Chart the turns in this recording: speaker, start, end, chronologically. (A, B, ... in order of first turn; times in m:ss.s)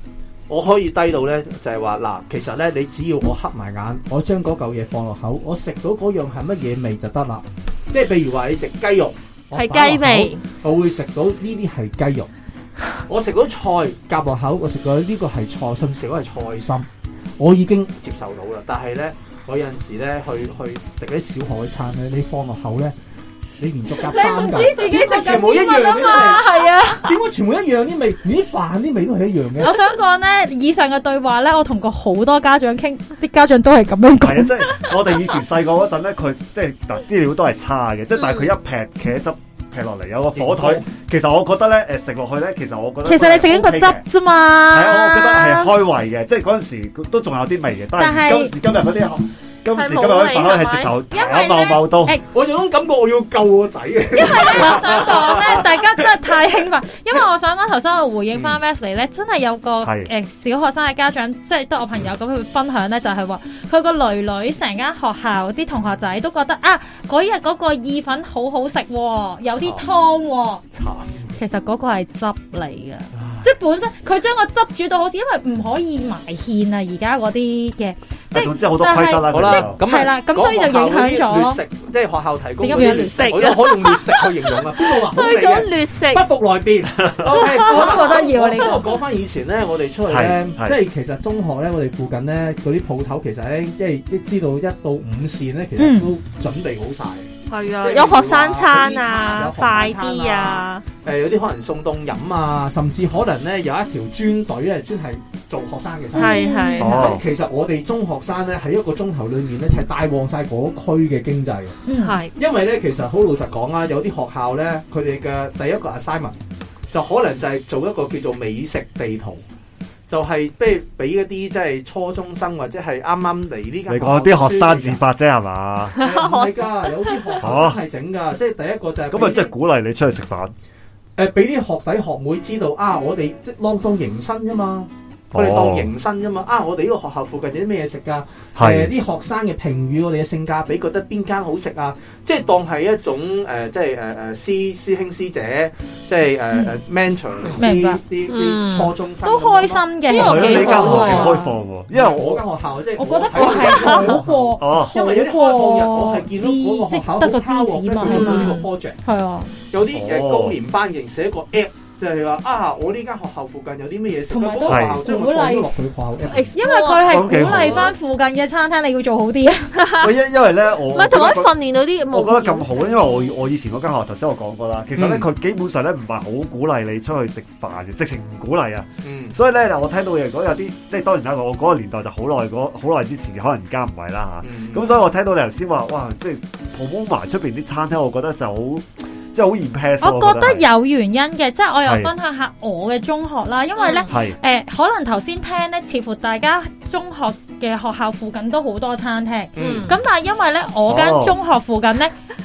0:00.5-0:12.3 A
0:09.6-0:10.4 B
0:13.1-0:16.9 A
0:17.4-0:23.0 A
0:23.6-0:26.5 A
0:24.0-0:27.1 C
0:27.0-0:29.8 A
0:29.6-0:34.9 C
0:34.2-0:44.0 D
0:38.2-0:38.5 B
0:40.4-0:40.9 A
0:43.0-0:45.7 C
0:44.7-0:52.2 D
0:48.0-0:48.5 C
0:49.8-0:50.9 B
0:51.1-0:52.2 C
0:52.3-0:56.0 A
0:54.1-1:10.6 C
0:59.8-1:00.1 D
1:09.6-1:09.9 A
1:10.7-1:11.3 A
1:11.4-1:21.6 C
1:18.3-1:19.8 D
1:19.3-1:51.8 A
1:22.6-1:23.6 C
1:22.7-1:26.2 B
1:27.0-1:27.3 D
1:27.4-1:28.9 C
1:27.4-1:27.9 B
1:30.1-1:30.8 D
1:35.8-1:36.1 C
1:37.5-1:40.8 B
1:46.1-1:47.0 B
1:46.2-1:47.2 C
1:46.8-1:47.2 D
1:51.9-1:52.2 C
1:52.0-1:52.3 B
1:52.4-1:56.4 A
1:56.9-1:59.4 A
2:00.1-2:05.0 A
2:03.9-2:06.0 D
2:06.0-2:07.2 B
2:06.0-2:09.5 A
2:07.4-2:07.8 D
2:09.1-2:10.5 D
2:11.2-2:31.4 A
2:15.3-2:15.9 D
2:18.6-2:18.9 D
2:26.5-2:26.8 C
2:27.6-2:28.0 C
2:28.3-2:28.9 B
2:29.2-2:31.5 C
2:30.1-2:31.4 B
2:30.1-2:32.4 D
2:31.9-2:39.0 A
2:33.0-2:39.5 C
2:33.4-2:34.1 B
2:34.6-2:34.9 D
2:38.0-2:38.7 B
2:39.7-2:46.6 A
2:39.9-2:40.6 D
2:44.3-2:45.7 C
2:44.7-2:45.1 D
2:46.3-2:47.9 B
2:46.6-2:49.7 C
2:47.0-2:47.9 D
2:49.8-2:50.1 B
2:50.0-2:51.6 D
2:50.9-2:53.2 B
2:52.1-3:10.6 D
2:55.0-2:55.3 A
2:59.0-2:59.4 A
3:04.4-3:05.0 A
3:10.0-3:22.1 C
3:11.8-3:12.1 D
3:13.8-3:14.1 B
3:14.1-3:14.4 D
3:19.6-3:19.9 A
3:19.6-3:20.0 B
3:20.9-3:21.4 D